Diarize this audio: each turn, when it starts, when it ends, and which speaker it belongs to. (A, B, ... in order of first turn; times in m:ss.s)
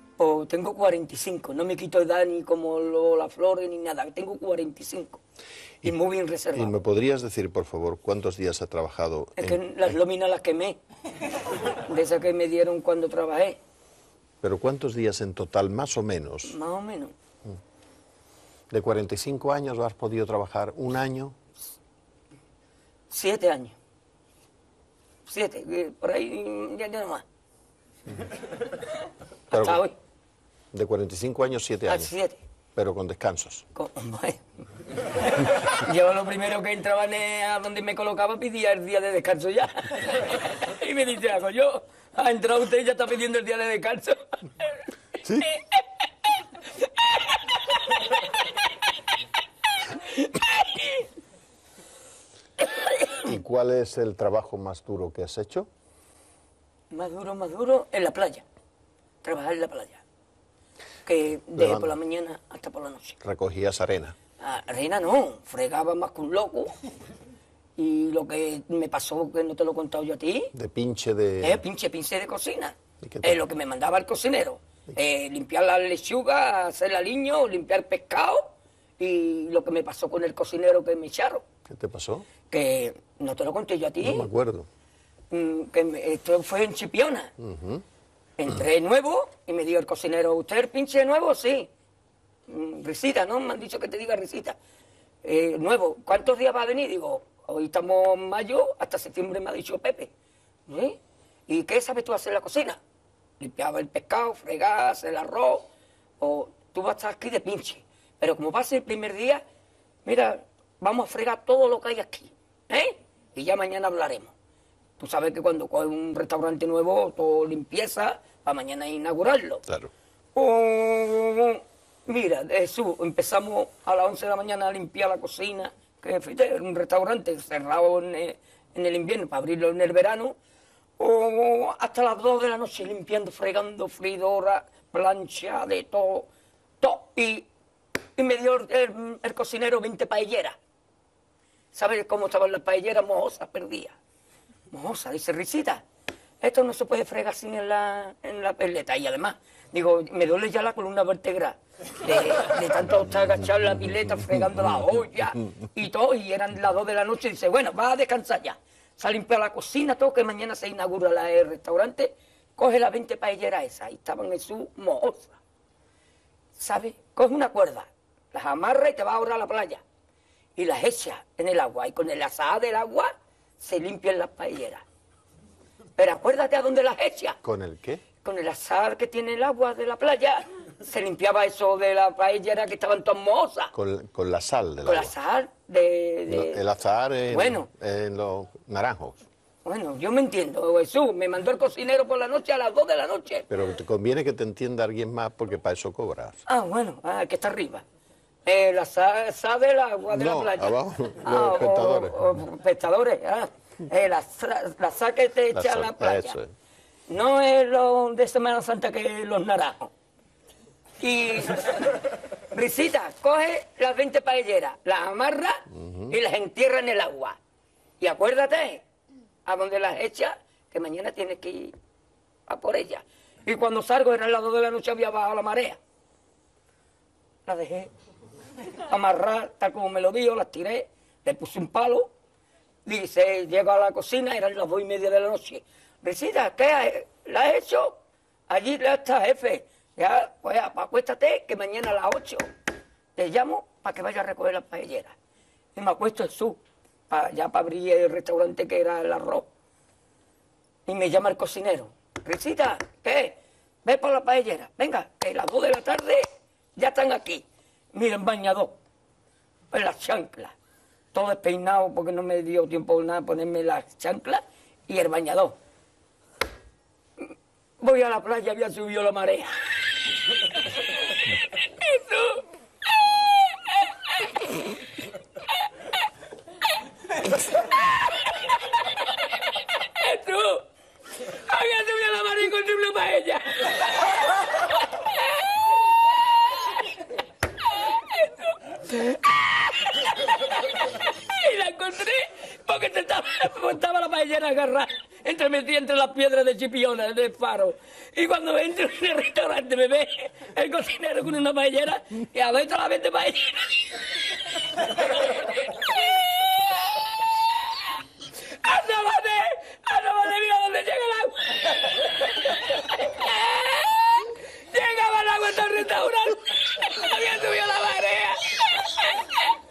0:00.2-0:05.2 A
0:05.8-0:06.8 A
0:06.5-0:09.8 B
0:09.4-0:10.8 A
0:11.7-0:13.6 A
0:14.4-0:16.6 B
0:16.4-0:17.1 A
0:18.7-0:21.4 B
0:23.1-0:23.8 A
0:25.3-0:27.2 A
0:29.5-0:29.8 B
0:29.5-0:29.9 A
0:30.7-0:32.1 B
0:31.9-0:32.4 A
0:32.8-0:33.6 B
0:33.7-0:34.4 A
0:35.2-0:44.7 A
0:45.2-0:45.8 A
0:46.8-0:48.3 A
0:49.8-0:51.1 A
0:53.2-0:55.7 B
0:56.9-0:58.4 A
0:59.2-1:00.0 A
1:01.0-1:03.2 A
1:01.6-1:01.9 B
1:03.2-1:04.2 B
1:04.4-1:06.7 A
1:07.8-1:10.5 A
1:10.5-1:11.6 B
1:11.4-1:21.4 A
1:13.0-1:13.4 B
1:21.7-1:22.2 B
1:22.5-1:24.3 A
1:24.0-1:24.7 B
1:25.3-1:27.3 A
1:27.4-1:27.8 B
1:28.4-1:31.7 A
1:32.5-1:34.6 A
1:35.2-1:40.1 A
1:40.7-1:42.8 A
1:43.4-1:45.7 A
1:46.2-1:49.4 A
1:50.0-1:54.3 A
1:55.0-1:59.6 A
2:00.3-2:10.4 A
2:11.0-2:16.3 A
2:16.8-2:17.5 A
2:18.2-2:20.6 A
2:21.7-2:24.0 A
2:24.7-2:25.8 A
2:26.4-2:45.4 A
2:46.6-2:49.8 A
2:50.6-2:54.8 A
2:56.0-2:57.4 A
2:57.4-2:58.0 B
2:58.2-3:03.7 A
3:03.7-3:05.1 B
3:04.8-3:06.6 A
3:06.3-3:09.2 B
3:07.3-3:07.7 A
3:09.6-3:13.5 A
3:13.5-3:16.4 B
3:16.4-3:17.8 A
3:18.4-3:26.4 A
3:20.1-3:22.3 B
3:25.5-3:26.5 B
3:27.1-3:29.9 A
3:31.0-3:37.4 A
3:38.0-3:38.8 A
3:39.4-3:41.7 A
3:42.5-3:45.8 A
3:47.4-3:47.9 A
3:48.7-3:52.1 A
3:52.8-3:58.0 A
3:58.5-4:02.5 A
4:03.2-4:05.1 A
4:05.7-4:09.5 A
4:10.8-4:18.8 A
4:19.7-4:20.5 A
4:21.1-4:25.6 A
4:27.8-4:32.4 A
4:33.0-4:34.6 A
4:37.6-4:45.6 A
4:47.7-5:07.8 A
5:08.3-5:19.5 A